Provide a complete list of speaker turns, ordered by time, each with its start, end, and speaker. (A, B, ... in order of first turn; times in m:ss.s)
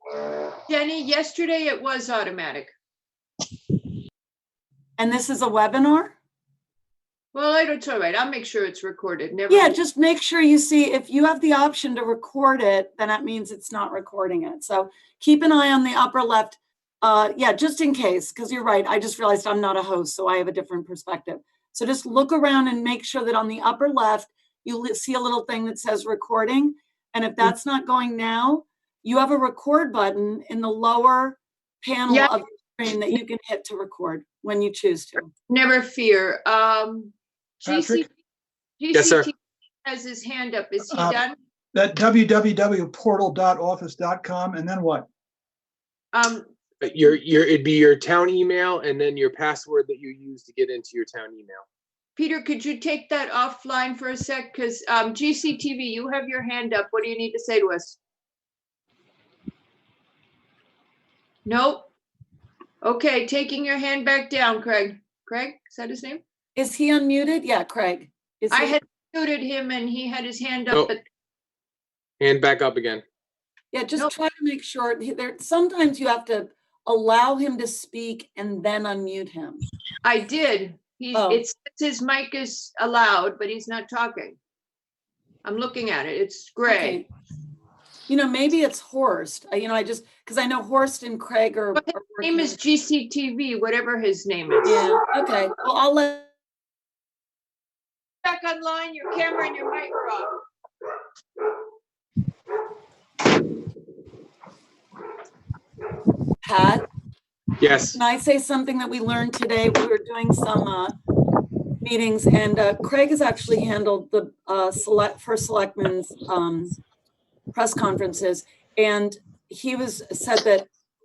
0:00.7-0:02.7 A
0:05.0-0:06.2 B
0:07.3-0:09.8 A
0:09.5-0:35.3 B
0:35.5-0:38.1 A
0:37.6-0:38.0 C
0:38.8-0:41.4 A
0:38.9-0:39.3 D
0:40.9-0:41.2 C
0:41.7-0:45.1 C
0:46.1-0:46.5 A
0:46.8-0:51.6 D
0:52.2-0:58.0 A
1:01.4-1:01.9 A
1:02.8-1:06.2 A
1:06.6-1:08.8 B
1:08.5-1:11.0 A
1:12.2-1:13.0 D
1:13.7-1:19.6 B
1:20.0-1:24.4 A
1:21.1-1:21.4 B
1:25.4-1:27.0 A
1:26.6-1:27.1 B
1:28.1-1:32.6 B
1:32.2-1:34.9 A
1:34.6-1:36.3 B
1:38.2-1:40.4 A
1:46.4-1:46.8 B
1:47.6-1:48.0 D
1:47.9-1:50.9 B
1:51.8-1:56.8 B
1:57.5-2:00.7 B